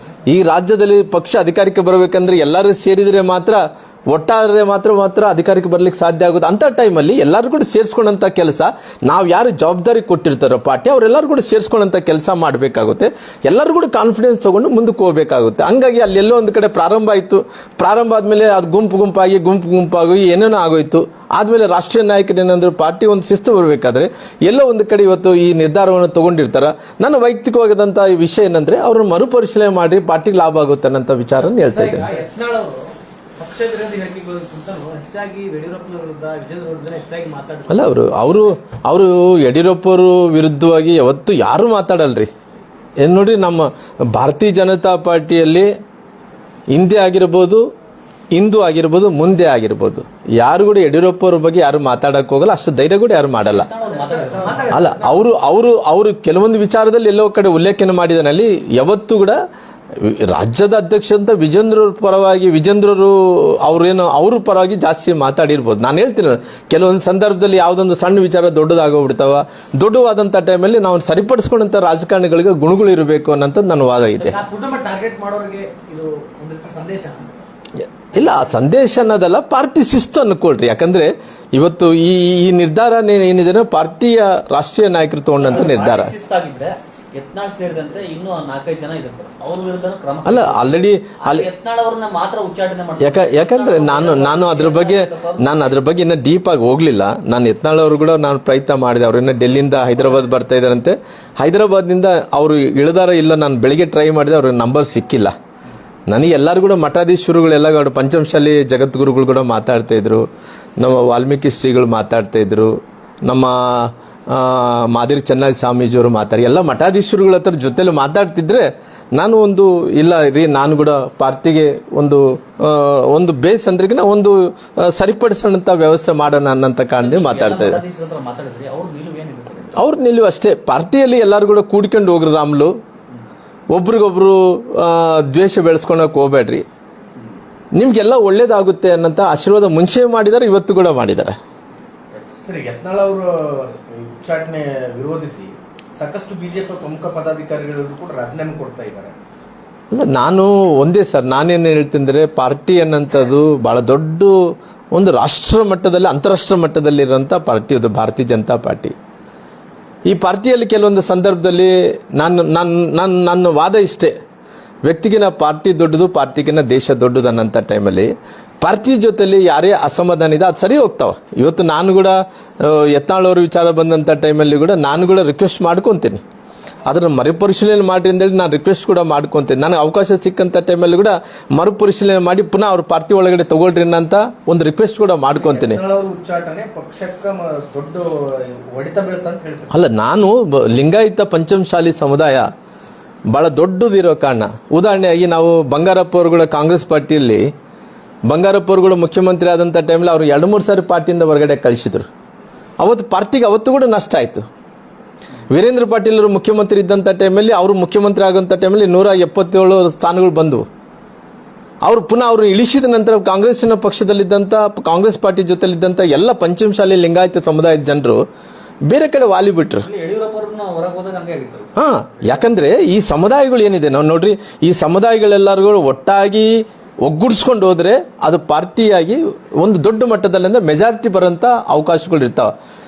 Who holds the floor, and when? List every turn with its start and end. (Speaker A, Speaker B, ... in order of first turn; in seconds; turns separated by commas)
Speaker A: 0.3-32.0, Speaker B: 31.7-32.2, Speaker C: 32.2-32.8, Speaker C: 33.4-37.6, Speaker B: 33.4-35.5, Speaker B: 37.1-37.7, Speaker A: 37.7-42.3, Speaker A: 43.0-45.7, Speaker A: 46.7-47.6, Speaker A: 48.3-53.7, Speaker B: 53.4-55.0, Speaker A: 54.7-59.4, Speaker A: 60.0-74.4, Speaker B: 74.2-74.6, Speaker C: 74.5-76.0, Speaker B: 75.3-77.3, Speaker C: 76.7-77.1, Speaker A: 78.1-86.1, Speaker B: 85.4-95.8, Speaker A: 90.2-91.5, Speaker A: 93.0-105.3, Speaker A: 106.1-110.2, Speaker A: 110.8-112.7, Speaker A: 113.2-127.8, Speaker B: 127.0-129.8, Speaker A: 129.7-132.7, Speaker A: 133.7-136.6, Speaker A: 137.8-141.3, Speaker C: 142.4-149.1, Speaker A: 149.9-154.3, Speaker A: 154.9-158.9, Speaker A: 160.1-164.1, Speaker A: 164.8-168.1, Speaker A: 168.6-176.2, Speaker A: 176.9-185.8, Speaker B: 185.4-185.7, Speaker C: 185.8-188.1, Speaker C: 188.7-189.7, Speaker A: 189.7-192.5, Speaker A: 193.3-197.4, Speaker A: 198.3-202.1, Speaker A: 202.8-204.4, Speaker A: 205.5-210.7, Speaker A: 211.8-218.2, Speaker A: 218.9-219.9, Speaker B: 219.8-221.7, Speaker A: 221.8-232.5